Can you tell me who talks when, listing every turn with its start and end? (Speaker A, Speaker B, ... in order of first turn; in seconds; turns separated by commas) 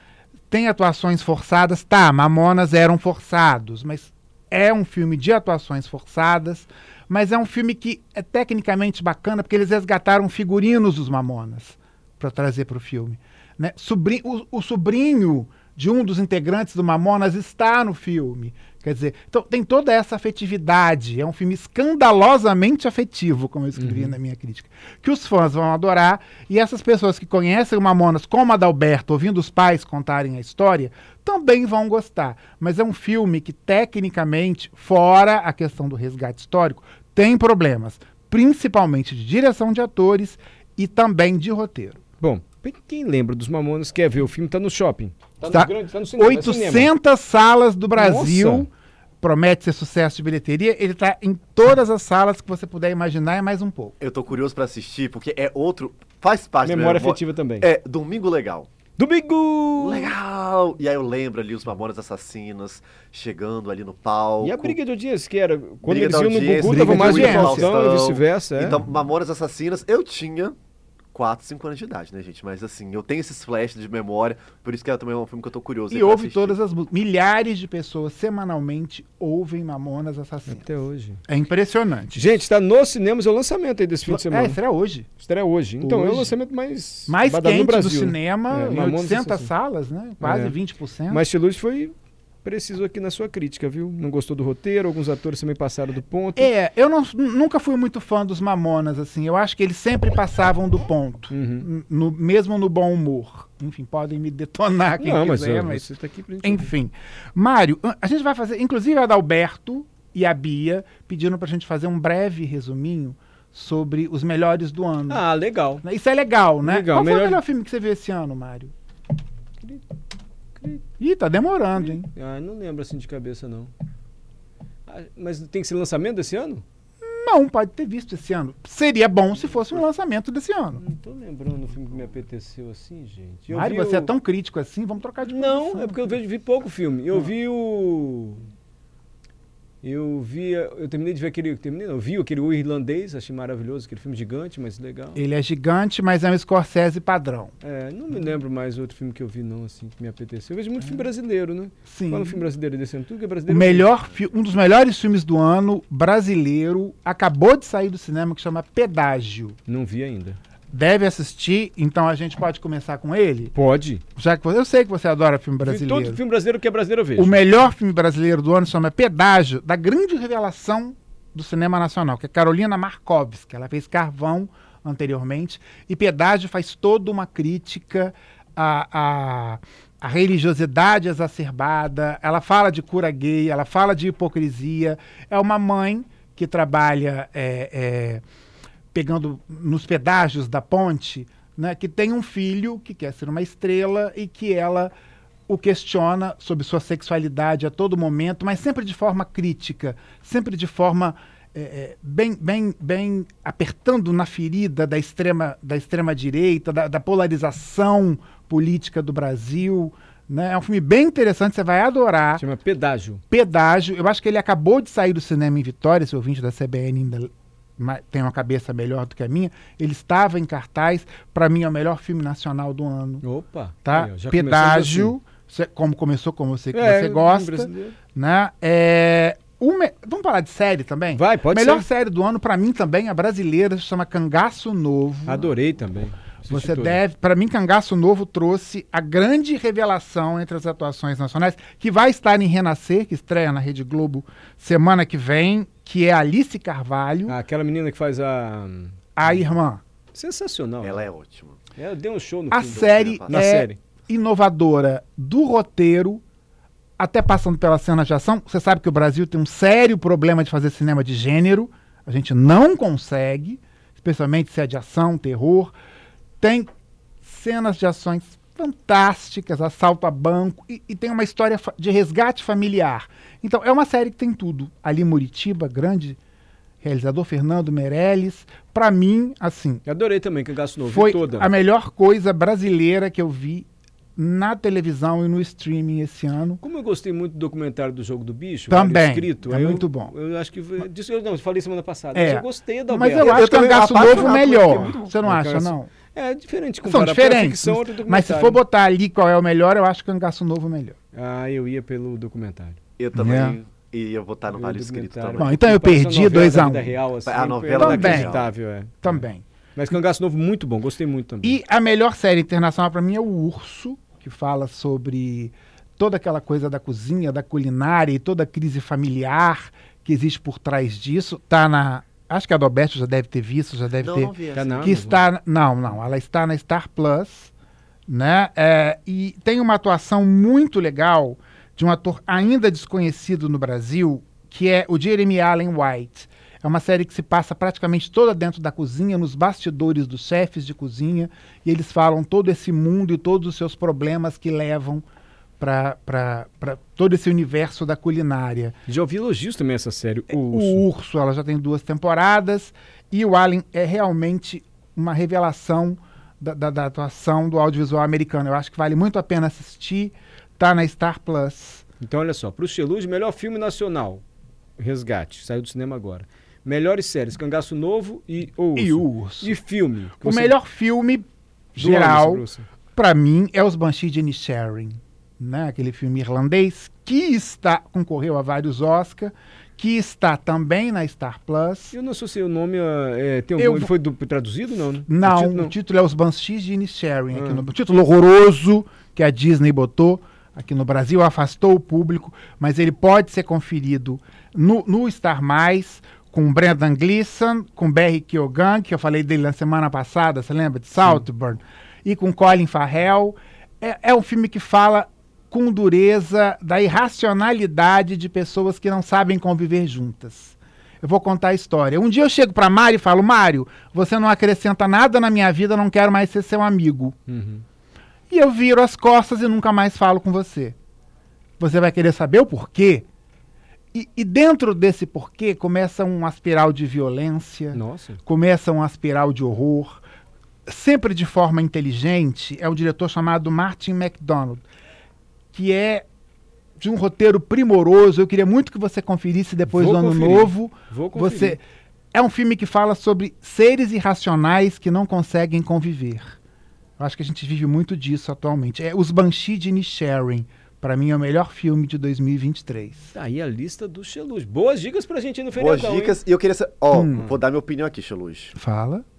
Speaker A: 0.5-42.0, Speaker B: 23.8-24.1, Speaker B: 42.2-46.9, Speaker A: 45.4-48.7, Speaker B: 47.9-48.7, Speaker A: 49.2-53.9, Speaker C: 54.0-58.7, Speaker B: 56.6-57.7, Speaker B: 59.0-60.1, Speaker C: 59.8-64.8, Speaker B: 64.4-68.8, Speaker C: 65.8-70.6, Speaker A: 66.6-67.8, Speaker C: 71.1-76.6, Speaker A: 75.9-80.7, Speaker B: 80.5-81.2, Speaker A: 81.3-82.2, Speaker B: 82.1-84.6, Speaker A: 84.0-85.1, Speaker B: 85.2-89.5, Speaker A: 85.8-86.3, Speaker A: 87.1-91.2, Speaker B: 90.2-90.6, Speaker B: 91.1-96.5, Speaker A: 96.3-105.9, Speaker B: 101.3-101.7, Speaker B: 105.0-106.7, Speaker A: 106.4-115.2, Speaker B: 115.1-115.8, Speaker A: 115.8-118.7, Speaker B: 116.6-117.4, Speaker B: 120.6-120.8, Speaker A: 121.0-122.1, Speaker B: 121.8-123.7, Speaker B: 124.9-126.6, Speaker A: 127.0-130.8, Speaker B: 129.4-129.8, Speaker B: 130.8-134.1, Speaker A: 133.5-136.1, Speaker B: 135.3-138.5, Speaker B: 139.8-145.2, Speaker A: 145.1-147.5, Speaker B: 147.6-153.9, Speaker A: 151.8-152.4, Speaker A: 153.5-159.6, Speaker B: 159.7-160.4, Speaker A: 160.7-163.5, Speaker B: 163.5-164.0, Speaker A: 164.2-166.2, Speaker B: 165.6-167.4, Speaker A: 167.2-188.2, Speaker A: 188.9-194.9, Speaker A: 195.5-212.4, Speaker B: 212.4-213.2, Speaker A: 213.3-223.2, Speaker B: 223.2-225.2, Speaker A: 223.8-235.5, Speaker B: 226.7-227.9, Speaker B: 231.1-231.9, Speaker B: 235.2-237.0, Speaker A: 236.5-247.4, Speaker B: 247.3-249.5, Speaker A: 249.2-249.8, Speaker B: 250.1-251.1, Speaker C: 250.8-251.6, Speaker B: 251.8-253.8, Speaker A: 252.5-256.2, Speaker C: 252.7-253.4, Speaker A: 257.0-265.7, Speaker A: 266.4-266.7, Speaker A: 267.2-276.2, Speaker A: 276.8-279.8, Speaker B: 279.8-281.5, Speaker A: 280.8-286.6, Speaker B: 286.6-298.6, Speaker A: 288.7-290.1, Speaker A: 292.1-295.9, Speaker C: 293.2-295.1, Speaker A: 296.8-300.9, Speaker B: 301.1-302.8, Speaker C: 303.0-305.6, Speaker A: 303.1-303.6, Speaker B: 304.5-311.6, Speaker A: 305.4-307.0, Speaker C: 307.2-308.5, Speaker A: 307.7-308.3, Speaker A: 309.0-309.4, Speaker A: 311.4-327.5, Speaker C: 324.0-325.0, Speaker B: 324.5-325.2, Speaker A: 328.1-345.0, Speaker A: 345.6-348.8, Speaker B: 348.9-350.8, Speaker A: 350.3-361.8, Speaker B: 362.0-364.2, Speaker B: 364.8-370.6, Speaker A: 368.8-369.6, Speaker A: 370.2-381.9, Speaker B: 371.8-372.7, Speaker B: 381.9-385.7, Speaker A: 383.6-383.9, Speaker A: 385.0-417.1, Speaker B: 387.3-387.6, Speaker B: 417.3-417.6, Speaker A: 418.3-420.8, Speaker A: 421.6-423.1, Speaker A: 423.9-430.0, Speaker B: 427.7-428.2, Speaker A: 430.7-434.6, Speaker A: 435.5-436.0, Speaker A: 436.8-441.6, Speaker B: 439.7-441.6, Speaker A: 442.1-446.4, Speaker A: 447.0-453.1, Speaker B: 453.1-456.2, Speaker C: 455.6-458.6, Speaker A: 456.9-457.3, Speaker A: 458.6-459.0